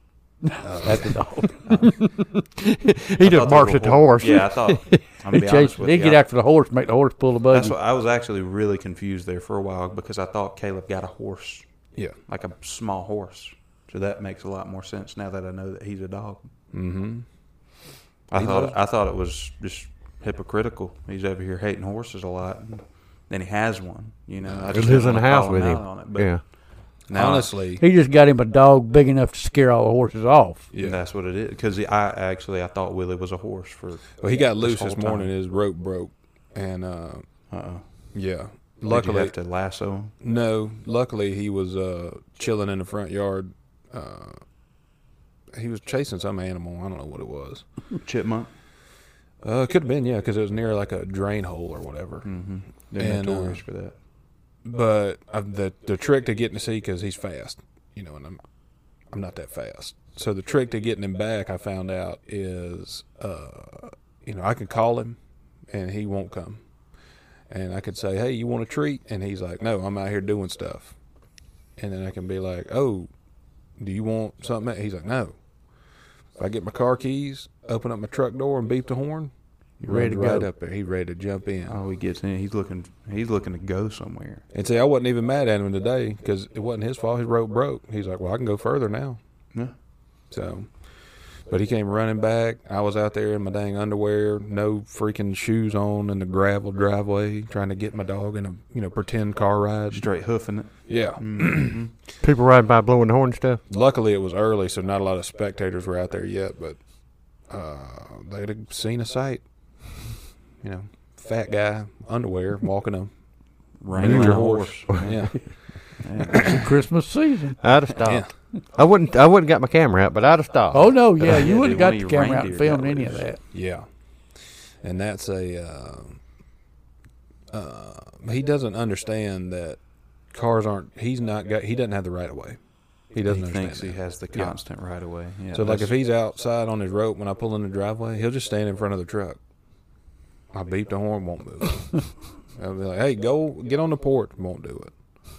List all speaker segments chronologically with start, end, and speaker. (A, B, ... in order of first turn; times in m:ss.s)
0:00.4-0:01.6 A
0:00.6-0:01.4 B
0:01.6-0:02.1 C
0:02.0-0:05.0 D
0:03.2-0:06.2 C
0:05.3-0:07.8 A
0:07.5-0:16.5 C
0:16.7-0:17.2 B
0:18.3-0:27.5 C
0:18.3-0:18.8 B
0:24.4-0:24.9 B
0:24.7-0:26.4 D
0:27.1-0:27.8 B
0:27.8-0:30.7 A
0:30.7-0:31.0 B
0:30.8-0:35.3 C
0:34.2-0:37.3 B
0:37.5-0:38.1 C
0:38.1-0:39.3 B
0:38.9-0:40.1 C
0:40.2-0:44.4 B
0:45.5-0:47.6 B
0:47.9-0:48.5 C
0:49.4-0:53.6 B
0:52.2-0:53.9 C
0:54.6-0:58.4 B
0:59.1-1:06.6 B
1:07.5-1:10.9 B
1:11.8-1:13.1 B
1:13.8-1:15.4 B
1:16.4-1:21.8 B
1:19.8-1:20.5 A
1:21.6-1:24.4 C
1:24.5-1:29.2 B
1:30.3-1:30.8 B
1:31.4-1:40.1 B
1:39.9-1:41.9 C
1:40.9-1:41.8 B
1:42.2-1:43.6 D
1:43.7-1:46.8 B
1:47.4-1:50.0 B
1:50.6-1:53.1 B
1:53.8-1:56.6 C
1:53.9-1:56.6 B
1:53.9-1:55.0 D
1:56.4-1:57.6 A
1:57.6-2:01.4 D
1:58.0-1:58.3 B
2:00.7-2:03.4 A
2:01.2-2:03.3 C
2:03.5-2:06.2 B
2:07.5-2:09.8 B
2:10.3-2:14.6 B
2:13.2-2:15.9 C
2:15.5-2:19.4 B
2:20.5-2:24.9 B